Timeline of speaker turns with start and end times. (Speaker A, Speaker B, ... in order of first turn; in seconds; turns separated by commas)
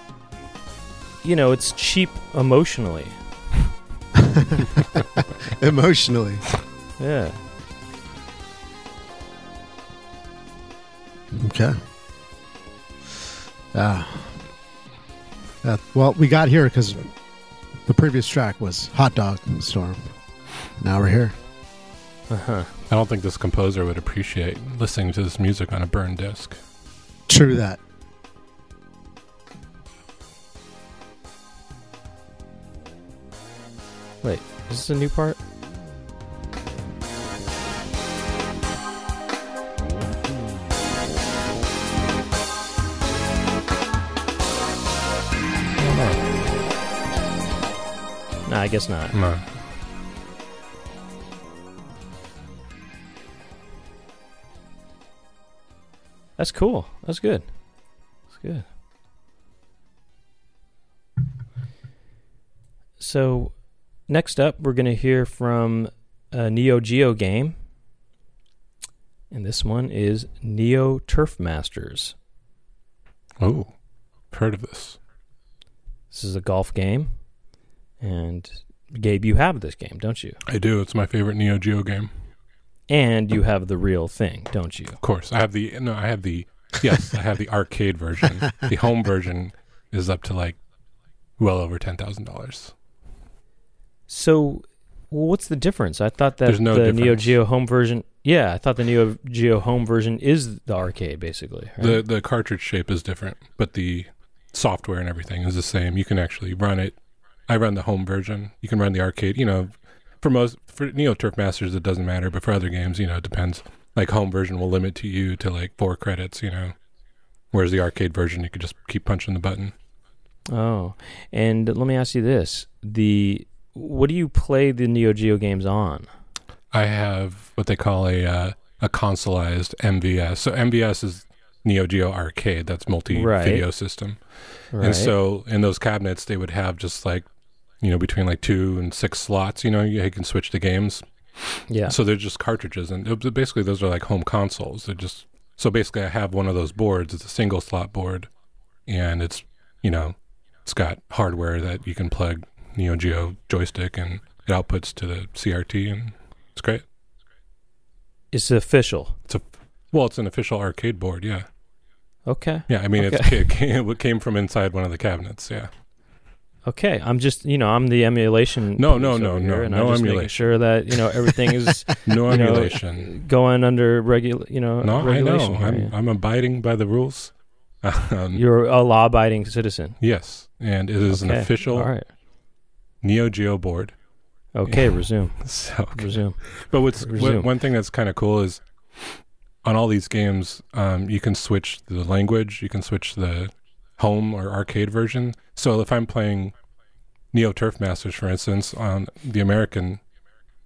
Speaker A: 1.2-3.2, Speaker B: 4.4-5.0, Speaker B: 5.5-6.5, Speaker A: 7.0-7.4, Speaker B: 11.3-11.8, Speaker B: 13.7-14.4, Speaker B: 15.6-17.2, Speaker B: 17.8-20.2, Speaker B: 20.7-21.3, Speaker A: 22.3-22.7, Speaker C: 22.9-26.6, Speaker B: 27.3-27.8, Speaker A: 34.2-35.4, Speaker C: 45.8-46.2, Speaker A: 48.5-49.2, Speaker C: 49.1-49.5, Speaker A: 56.4-57.7, Speaker A: 58.3-58.7, Speaker A: 63.0-67.6, Speaker A: 69.3-72.2, Speaker C: 73.4-73.7, Speaker C: 74.3-75.0, Speaker A: 76.1-77.1, Speaker A: 78.0-80.4, Speaker C: 80.5-82.1, Speaker A: 82.9-85.0, Speaker C: 85.0-90.6, Speaker C: 91.4-92.7, Speaker A: 94.1-102.0, Speaker C: 96.5-97.3, Speaker C: 101.8-116.8, Speaker C: 117.5-119.7, Speaker A: 120.5-126.1, Speaker C: 126.7-137.3, Speaker A: 133.1-133.7, Speaker A: 134.7-135.1, Speaker C: 137.8-148.3, Speaker A: 141.7-141.9, Speaker C: 148.9-156.8, Speaker A: 158.3-159.2, Speaker C: 159.3-161.5, Speaker A: 162.2-163.4, Speaker C: 162.7-165.7, Speaker A: 166.6-175.9, Speaker C: 168.8-171.4, Speaker C: 171.9-173.1, Speaker C: 174.8-178.4, Speaker A: 178.3-180.0, Speaker C: 180.0-181.9, Speaker A: 181.1-182.1, Speaker C: 183.0-184.0, Speaker A: 184.5-187.5, Speaker C: 184.6-188.6, Speaker C: 189.6-196.5, Speaker C: 197.3-200.0